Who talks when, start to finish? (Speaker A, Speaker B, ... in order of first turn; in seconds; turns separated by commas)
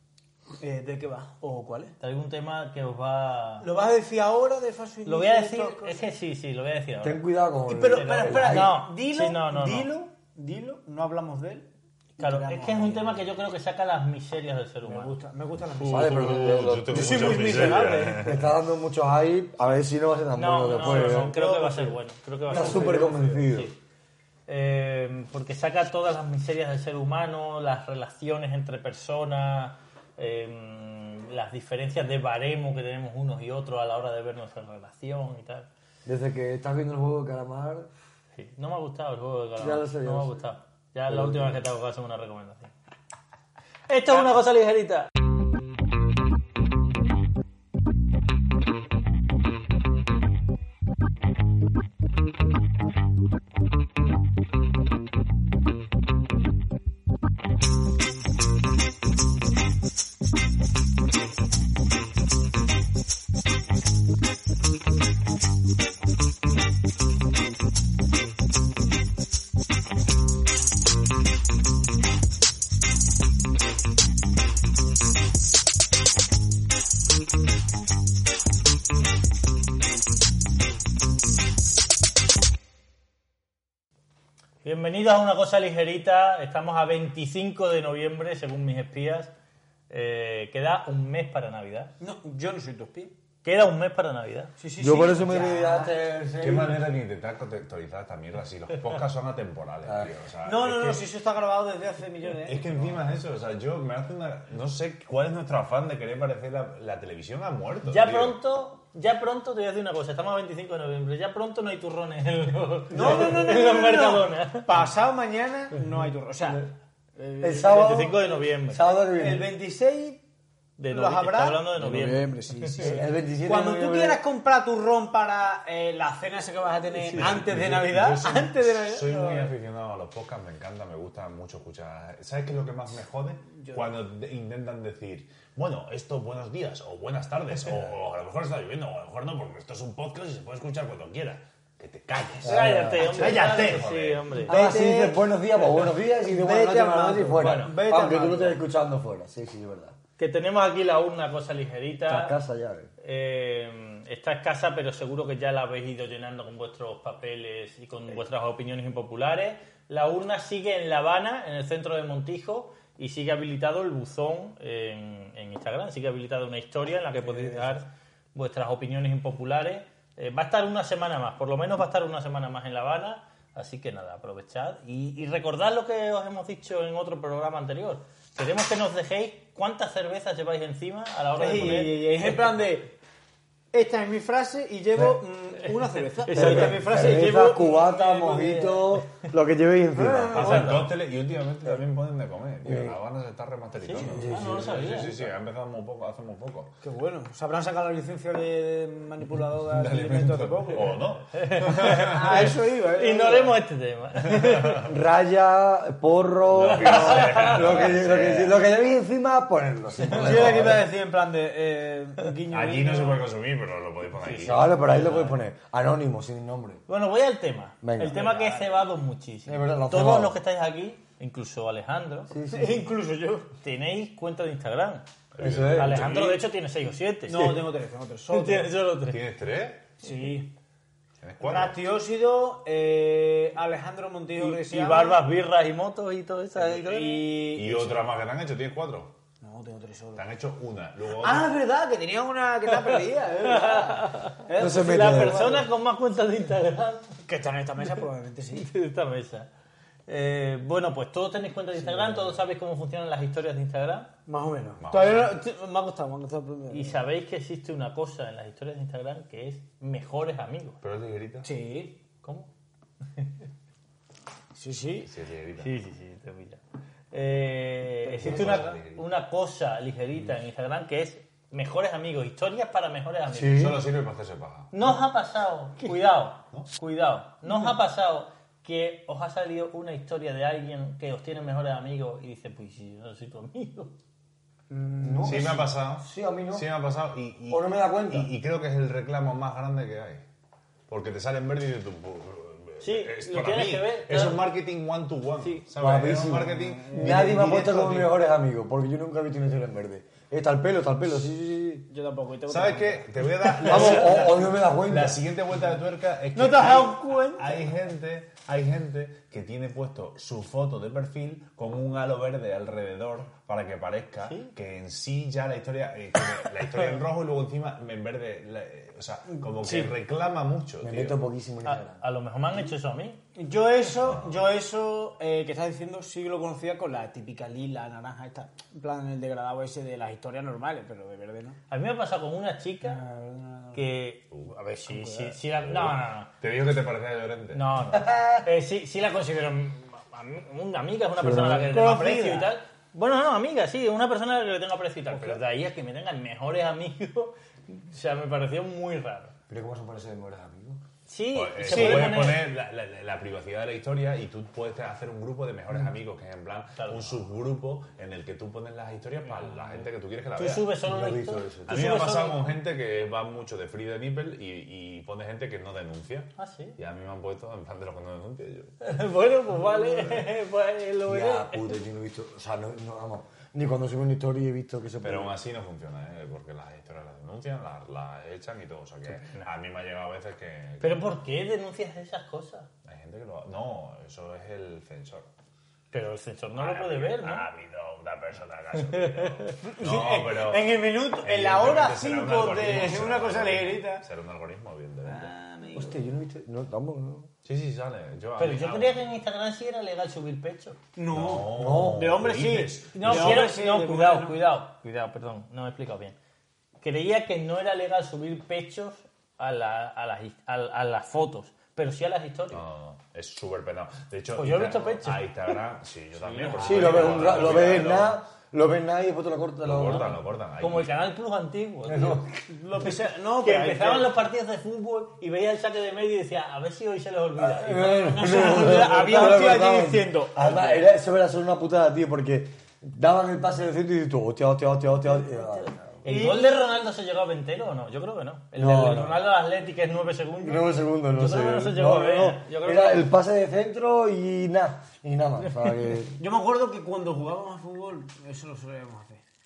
Speaker A: 0.6-1.9, Speaker B: 2.0-3.7, Speaker A: 3.6-6.0, Speaker B: 5.0-7.2, Speaker C: 7.0-8.7, Speaker A: 7.7-11.7, Speaker B: 7.9-9.9, Speaker A: 12.2-13.3, Speaker B: 12.2-15.2, Speaker A: 14.8-18.3, Speaker C: 15.8-21.3, Speaker D: 15.9-18.5, Speaker B: 20.4-23.7, Speaker A: 20.7-22.0, Speaker A: 22.5-23.5, Speaker C: 22.5-23.7, Speaker B: 24.5-35.7, Speaker C: 36.0-37.9, Speaker B: 38.4-42.7, Speaker C: 39.6-40.5, Speaker C: 41.1-41.6, Speaker B: 43.9-45.1, Speaker B: 84.6-89.3, Speaker B: 89.9-91.9, Speaker A: 92.0-93.1, Speaker B: 93.4-94.5, Speaker A: 94.6-95.9, Speaker C: 94.8-96.9, Speaker D: 96.4-101.1, Speaker C: 99.8-100.1, Speaker A: 100.4-102.9, Speaker D: 102.4-108.4, Speaker B: 107.9-114.7, Speaker A: 112.9-118.1, Speaker C: 112.9-113.4, Speaker C: 117.4-118.2, Speaker B: 117.6-118.8, Speaker C: 118.7-119.5, Speaker A: 119.1-120.2, Speaker B: 120.8-122.8, Speaker A: 120.9-129.5, Speaker C: 122.8-124.2, Speaker B: 126.9-127.3, Speaker D: 127.1-144.4, Speaker A: 133.6-133.9, Speaker C: 142.4-143.6, Speaker B: 142.4-144.5, Speaker C: 144.5-149.9, Speaker A: 144.5-145.2, Speaker A: 145.7-148.6, Speaker B: 147.4-147.7, Speaker B: 150.2-152.3, Speaker C: 152.1-152.9, Speaker B: 153.0-182.3, Speaker C: 167.2-167.7, Speaker A: 181.3-182.9, Speaker A: 183.7-188.9, Speaker C: 184.9-185.2, Speaker B: 185.7-187.1, Speaker C: 186.3-190.8, Speaker A: 189.9-190.9, Speaker D: 190.3-196.8, Speaker B: 190.5-190.8, Speaker C: 192.6-192.9, Speaker B: 193.8-195.2, Speaker C: 193.9-194.8, Speaker A: 196.8-201.1, Speaker D: 199.7-202.6, Speaker B: 201.3-202.4, Speaker A: 201.8-203.5, Speaker B: 203.0-204.8, Speaker D: 204.3-204.9, Speaker C: 204.8-210.8, Speaker D: 206.5-208.7, Speaker B: 206.8-207.8, Speaker D: 210.0-210.8, Speaker A: 210.1-213.3, Speaker D: 212.5-215.3, Speaker B: 214.2-214.6, Speaker C: 214.3-216.8, Speaker B: 216.9-222.3, Speaker C: 217.8-218.2, Speaker A: 218.0-218.8, Speaker C: 219.4-220.3, Speaker C: 222.3-222.8, Speaker A: 222.4-223.5, Speaker B: 223.6-225.0, Speaker D: 225.3-226.3, Speaker C: 225.4-226.1, Speaker B: 225.7-227.6, Speaker A: 227.2-228.8, Speaker B: 228.3-229.2, Speaker D: 229.0-230.0, Speaker A: 230.0-230.5, Speaker D: 231.2-231.8, Speaker A: 231.4-235.2, Speaker B: 234.4-237.4, Speaker A: 236.6-238.1, Speaker D: 237.5-239.1, Speaker A: 239.4-240.2, Speaker D: 240.1-241.5, Speaker A: 241.2-245.7, Speaker B: 243.4-247.1, Speaker C: 244.6-245.4, Speaker A: 247.2-248.7, Speaker B: 248.5-249.5, Speaker B: 250.1-254.1, Speaker A: 251.8-252.4, Speaker A: 254.3-257.0, Speaker D: 254.8-255.3, Speaker B: 256.7-260.8, Speaker D: 260.8-261.5, Speaker A: 261.4-262.0, Speaker B: 262.2-262.5, Speaker A: 264.5-265.1, Speaker D: 265.0-265.7, Speaker B: 265.6-266.6, Speaker B: 267.1-273.6, Speaker A: 268.1-268.8, Speaker D: 268.2-269.1, Speaker C: 273.3-273.8, Speaker D: 273.5-274.8, Speaker B: 274.7-283.9, Speaker A: 277.5-277.7, Speaker A: 284.7-285.6, Speaker C: 285.0-286.7, Speaker D: 285.2-290.2, Speaker C: 287.5-288.3, Speaker D: 290.9-298.1, Speaker B: 292.8-294.4, Speaker C: 295.8-301.9, Speaker A: 296.5-297.4, Speaker A: 301.9-304.3, Speaker D: 302.5-321.2, Speaker C: 303.6-305.2, Speaker A: 306.3-307.6, Speaker B: 314.2-314.5, Speaker A: 319.4-319.9, Speaker C: 320.8-322.0, Speaker B: 321.6-323.2, Speaker A: 323.3-331.6, Speaker D: 323.9-324.4, Speaker B: 331.7-333.0, Speaker A: 332.8-333.8, Speaker B: 333.7-336.3, Speaker A: 334.9-335.3, Speaker D: 335.6-337.6, Speaker B: 337.5-349.3, Speaker C: 337.9-338.4, Speaker C: 341.2-341.6, Speaker A: 341.5-342.5, Speaker C: 349.5-350.8, Speaker B: 351.1-352.5, Speaker D: 351.3-360.8, Speaker A: 351.6-352.3, Speaker B: 356.8-357.1, Speaker B: 360.4-362.5, Speaker C: 360.8-361.8, Speaker D: 361.7-368.7, Speaker B: 366.4-366.8, Speaker B: 368.8-371.8, Speaker C: 371.0-375.4, Speaker D: 375.0-381.1, Speaker B: 380.8-382.7, Speaker D: 382.8-385.3, Speaker B: 385.9-387.5, Speaker D: 386.5-395.3, Speaker B: 388.8-389.6, Speaker A: 389.6-394.0, Speaker A: 395.0-396.0, Speaker C: 395.7-397.3, Speaker D: 397.4-399.0, Speaker B: 398.4-400.8, Speaker A: 400.9-404.4, Speaker D: 401.1-403.5, Speaker C: 401.5-402.2, Speaker B: 402.9-406.1, Speaker B: 406.8-412.6, Speaker D: 412.5-418.2, Speaker B: 414.3-415.5, Speaker A: 416.2-417.3, Speaker B: 416.4-417.5, Speaker C: 416.6-420.1, Speaker D: 419.6-421.0, Speaker B: 420.6-422.2, Speaker C: 421.9-422.4, Speaker A: 422.5-424.1, Speaker B: 423.4-429.6, Speaker C: 427.4-436.0, Speaker A: 428.0-430.9, Speaker B: 435.4-443.1, Speaker A: 436.0-436.6, Speaker C: 438.6-439.2, Speaker C: 440.4-446.2, Speaker A: 446.2-449.2